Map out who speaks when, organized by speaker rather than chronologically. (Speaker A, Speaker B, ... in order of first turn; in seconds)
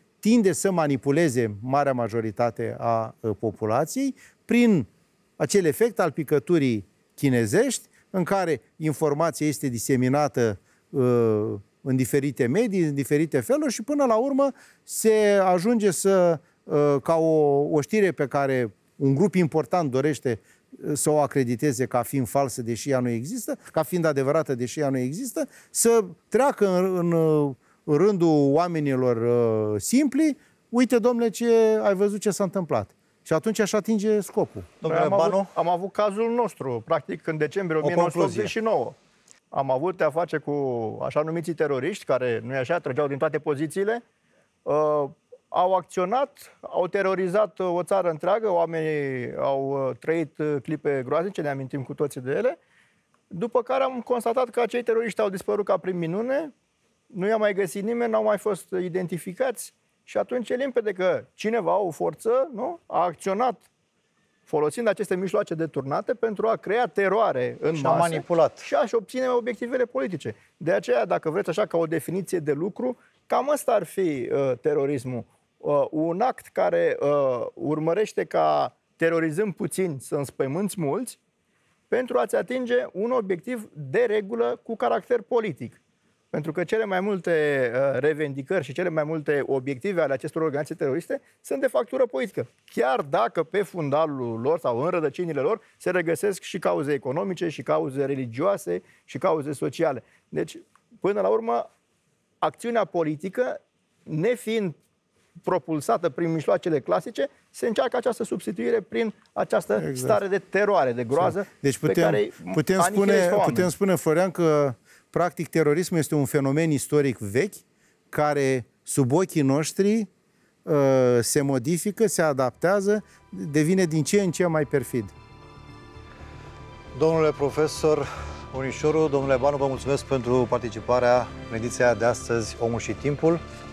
Speaker A: 0.2-34.7, 109.8-110.2, 111.2-120.1, 120.7-125.1
Speaker B: 34.8-35.5, 37.8-38.5, 67.7-68.7, 127.0-133.4
Speaker C: 34.8-39.0, 39.5-44.0, 44.6-52.6, 53.3-56.5, 57.1-63.6, 64.5-81.2, 81.9-85.8, 86.3-101.7, 102.4-104.8, 105.4-113.7